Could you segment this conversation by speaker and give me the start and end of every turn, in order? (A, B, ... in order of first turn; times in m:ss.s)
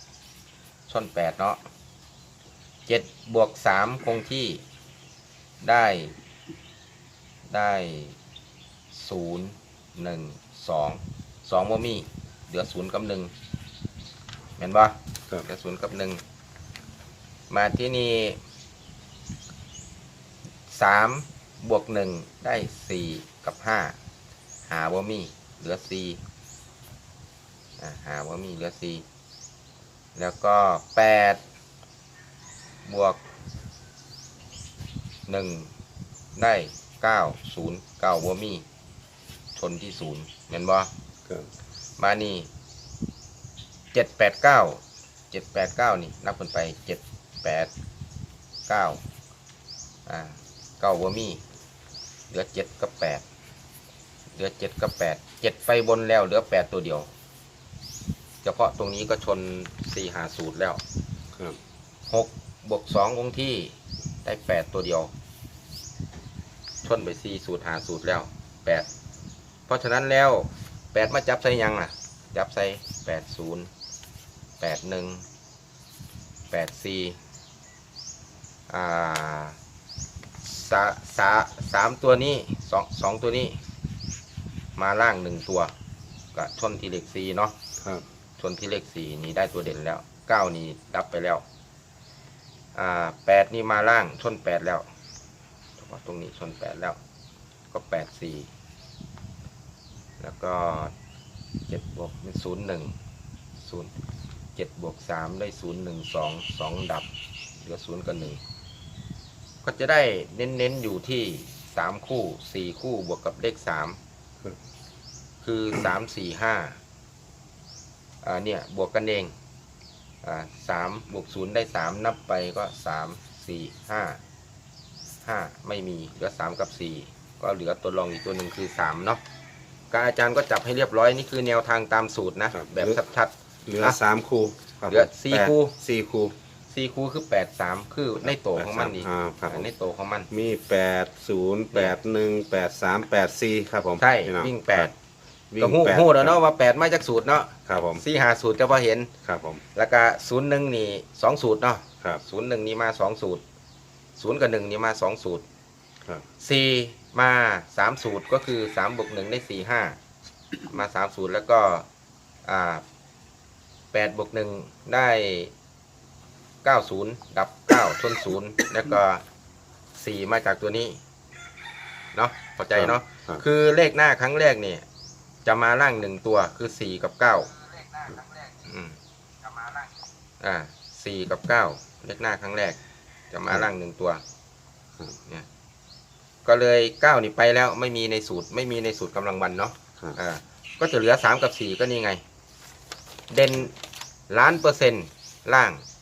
0:00.9-0:01.6 A
0:02.9-0:04.6 A
0:05.6-0:06.1 A
0:07.5-0:08.2 A
0:08.9-0:13.3 A
0:14.6-0:16.2 A
0:17.5-0:18.4 A
0:20.7-0:24.0 A
0:24.7-0:26.2 A
0:27.8-0:29.0 A
0:30.2-0:31.4 A
0:32.8-0:33.2 A
0:35.3-0:35.7 A
0:36.4-0:38.6 A
0:39.6-0:40.9 A
0:42.0-0:42.5 A
0:43.9-0:47.7 A
0:48.7-0:49.0 A
0:50.1-0:51.4 A
0:52.3-0:53.2 A
0:54.4-0:57.1 A
0:58.4-1:00.8 A
1:02.1-1:05.1 A
1:06.8-1:08.9 A
1:09.7-1:13.7 A
1:14.6-1:15.2 A
1:16.5-1:17.2 A
1:18.7-1:19.6 A
1:20.4-1:23.6 A
1:24.8-1:25.7 A
1:26.3-1:27.6 A
1:28.4-1:31.4 A
1:32.8-1:34.9 A
1:35.8-1:37.0 A
1:37.7-1:38.5 A
1:40.2-1:40.9 A
1:41.7-1:43.0 A
1:43.6-1:43.9 A
1:44.6-1:47.1 A
1:47.6-1:48.4 A
1:49.6-1:54.0 A
1:55.4-1:56.8 A
1:58.2-1:59.3 A
2:00.2-2:04.2 A
2:05.2-2:09.2 A
2:09.9-2:14.0 A
2:12.5-2:13.0 B
2:13.7-2:16.3 B
2:14.9-2:15.8 A
2:16.7-2:20.3 A
2:18.2-2:19.7 B
2:20.3-2:24.9 B
2:24.0-2:24.9 A
2:25.5-2:26.4 B
2:25.6-2:29.1 A
2:27.7-2:28.0 B
2:29.2-2:29.6 B
2:29.8-2:33.4 A
2:34.2-2:35.4 A
2:36.4-2:40.0 A
2:40.7-2:41.9 A
2:42.4-2:42.8 A
2:43.9-2:45.5 A
2:46.6-2:49.2 A
2:50.0-2:51.0 A
2:52.1-2:54.8 A
2:52.7-2:53.4 B
2:55.4-2:59.0 A
2:59.5-2:59.9 A
3:00.4-3:02.8 A
3:03.3-3:04.2 A
3:06.4-3:12.2 A
3:13.3-3:13.8 A
3:14.3-3:15.8 A